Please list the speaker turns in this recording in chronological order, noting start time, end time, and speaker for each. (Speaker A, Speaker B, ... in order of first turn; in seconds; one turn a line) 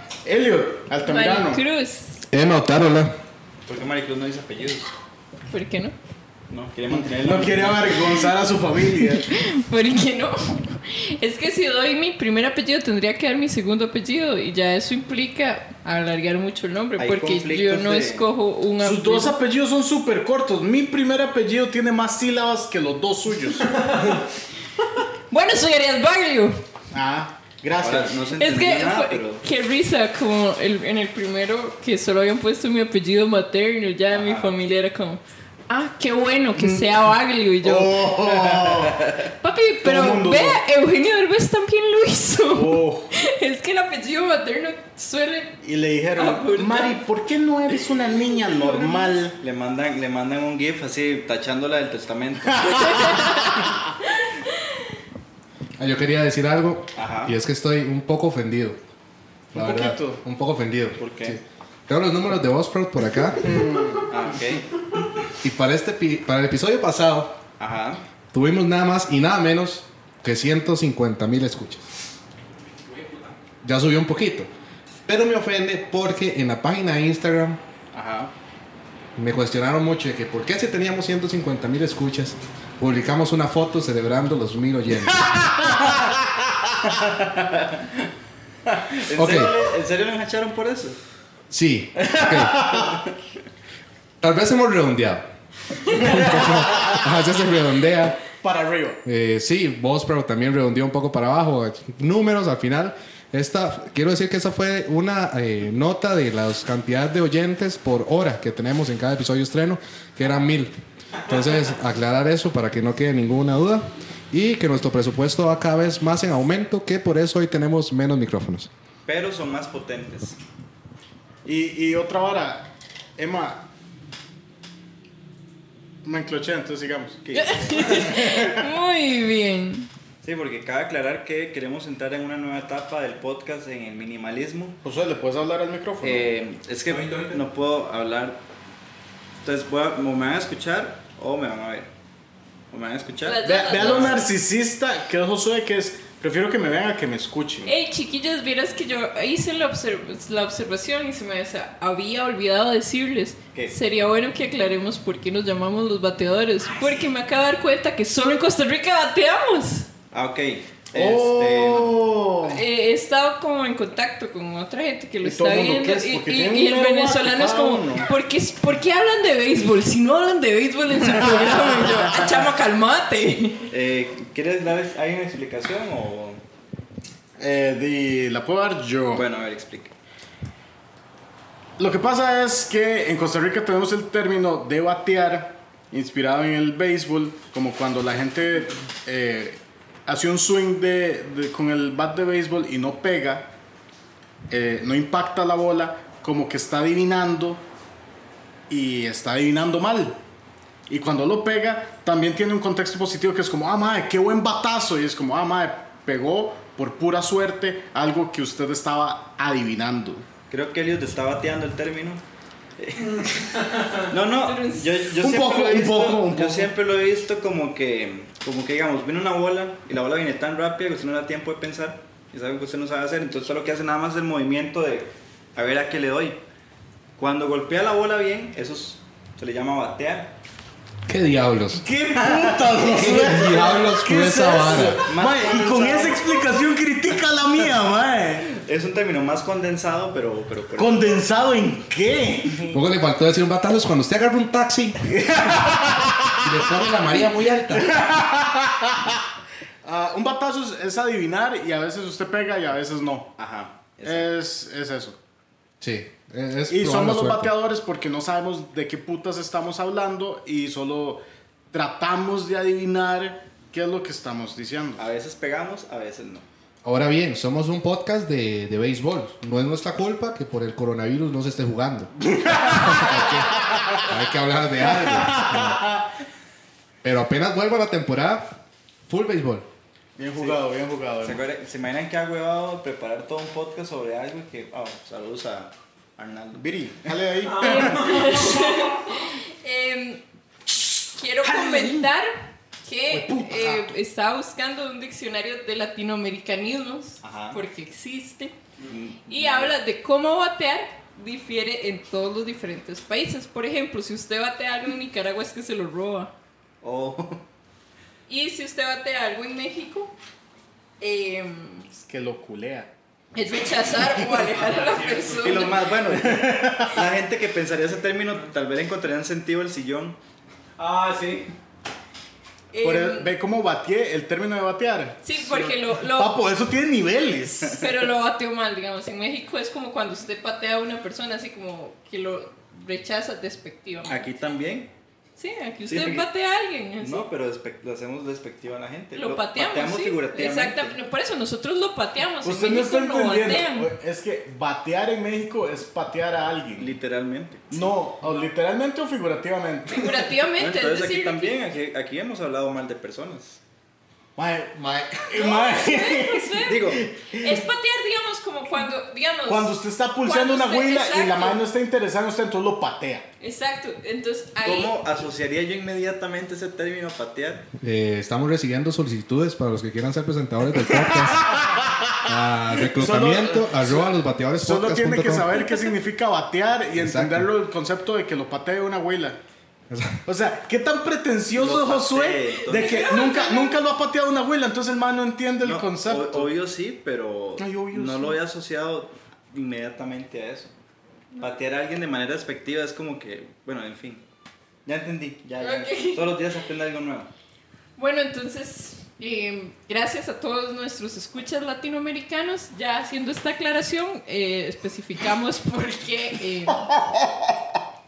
Speaker A: 0.2-1.6
Speaker B: 1.0-2.2
Speaker C: 2.3-3.2
Speaker D: 3.7-4.9
Speaker B: 5.5-5.9
Speaker D: 6.5-8.3
Speaker A: 6.9-9.3
Speaker B: 9.0-19.4
Speaker D: 17.0-18.3
Speaker A: 18.8-23.8
Speaker E: 23.8-24.2
Speaker B: 25.3-26.6
Speaker A: 26.9-28.2
Speaker D: 27.8-29.4
Speaker B: 28.4-38.4
Speaker D: 34.1-34.5
Speaker A: 36.5-36.8
Speaker A: 37.6-39.2
Speaker D: 38.6-39.1
Speaker B: 39.2-47.0
Speaker A: 39.8-40.6
Speaker A: 42.5-43.1
Speaker A: 45.6-49.4
Speaker B: 48.5-49.1
Speaker D: 49.4-53.2
Speaker A: 52.7-53.8
Speaker B: 52.8-54.9
Speaker C: 55.8-58.8
Speaker D: 56.9-57.4
Speaker A: 59.5-60.2
Speaker C: 59.5-63.6
Speaker D: 61.0-61.4
Speaker A: 63.4-64.1
Speaker D: 64.1-64.7
Speaker C: 65.4-67.4
Speaker D: 67.6-68.0
Speaker C: 68.3-71.8
Speaker E: 72.8-73.3
Speaker C: 73.6-74.5
Speaker C: 75.0-77.6
Speaker D: 77.9-78.3
Speaker C: 79.2-85.9
Speaker D: 86.9-88.0
Speaker D: 88.8-91.0
Speaker C: 89.1-89.5
Speaker C: 91.5-92.7
Speaker A: 92.0-93.0
Speaker C: 94.2-95.3
Speaker C: 95.9-98.2
Speaker A: 95.9-97.1
Speaker A: 98.3-99.0
Speaker C: 99.0-118.7
Speaker D: 119.0-120.4
Speaker A: 121.4-123.6
Speaker A: 126.0-127.2
Speaker D: 127.2-128.1
Speaker B: 127.3-129.9
Speaker A: 127.9-128.6
Speaker D: 130.2-134.8
Speaker A: 134.8-136.3
Speaker D: 136.0-138.4
Speaker E: 136.9-137.4
Speaker D: 139.4-141.9
Speaker D: 142.7-144.2
Speaker B: 143.2-144.3
Speaker A: 143.4-147.7
Speaker B: 147.6-159.9
Speaker D: 160.1-162.0
Speaker A: 160.9-162.6
Speaker B: 162.4-173.7
Speaker A: 165.2-168.1
Speaker A: 171.1-172.2
Speaker D: 173.7-176.4
Speaker A: 177.4-179.2
Speaker D: 179.1-179.9
Speaker A: 181.8-193.5
Speaker A: 194.5-197.6
Speaker A: 198.7-200.2
Speaker A: 200.9-210.2
Speaker D: 210.5-212.2
Speaker D: 212.8-226.4
Speaker E: 213.0-214.0
Speaker B: 214.3-215.0
Speaker A: 215.2-216.7
Speaker D: 227.2-230.3
Speaker C: 231.1-231.8
Speaker A: 231.8-238.6
Speaker D: 232.3-232.8
Speaker C: 232.8-235.0
Speaker D: 235.0-236.3
Speaker D: 238.6-241.2
Speaker A: 240.8-242.8
Speaker C: 242.7-245.4
Speaker A: 245.2-246.4
Speaker C: 246.3-248.0
Speaker A: 247.7-249.2
Speaker A: 249.8-253.3
Speaker D: 253.4-254.3
Speaker A: 254.0-255.2
Speaker C: 255.8-257.5
Speaker A: 256.7-261.2
Speaker A: 261.7-265.0
Speaker D: 265.0-266.4
Speaker C: 266.8-275.9
Speaker A: 272.3-274.1
Speaker A: 274.8-276.1
Speaker C: 277.0-279.7
Speaker A: 280.2-281.4
Speaker D: 280.4-280.6
Speaker D: 281.2-287.1
Speaker A: 286.5-288.5
Speaker E: 287.5-288.9
Speaker B: 287.6-290.2
Speaker B: 290.7-292.3
Speaker A: 291.5-291.9
Speaker B: 292.9-298.5
Speaker A: 293.1-293.9
Speaker D: 297.2-297.6
Speaker D: 298.9-299.7
Speaker B: 299.2-306.3
Speaker D: 306.8-307.4
Speaker B: 308.3-310.1
Speaker B: 311.0-311.9
Speaker A: 311.9-312.9
Speaker B: 313.3-315.8
Speaker E: 314.5-315.5
Speaker D: 315.4-320.2
Speaker A: 316.0-317.0
Speaker E: 320.8-321.5
Speaker B: 322.7-323.3
Speaker A: 322.8-325.3
Speaker B: 325.2-326.4
Speaker A: 326.0-328.0
Speaker B: 327.7-334.3
Speaker D: 334.1-334.9
Speaker B: 335.4-337.3
Speaker D: 335.8-336.3
Speaker D: 337.0-340.9
Speaker B: 339.1-343.9
Speaker A: 342.4-346.9
Speaker D: 346.8-347.9
Speaker A: 347.7-350.2
Speaker B: 349.9-351.6
Speaker D: 350.6-353.6
Speaker A: 354.4-357.6
Speaker C: 354.8-355.2
Speaker B: 355.3-361.6
Speaker D: 356.6-357.0
Speaker A: 359.5-363.3
Speaker B: 363.4-365.0
Speaker D: 364.6-367.6
Speaker C: 367.8-371.5
Speaker A: 371.1-372.2
Speaker C: 372.2-375.5
Speaker A: 372.8-379.4
Speaker C: 376.9-377.5
Speaker C: 379.9-380.2
Speaker A: 380.2-386.5
Speaker D: 381.5-383.1
Speaker B: 382.6-383.8
Speaker D: 385.6-390.7
Speaker A: 387.6-388.4
Speaker D: 391.4-394.2
Speaker D: 394.9-397.3
Speaker B: 395.6-396.4
Speaker B: 398.0-406.9
Speaker A: 406.8-407.6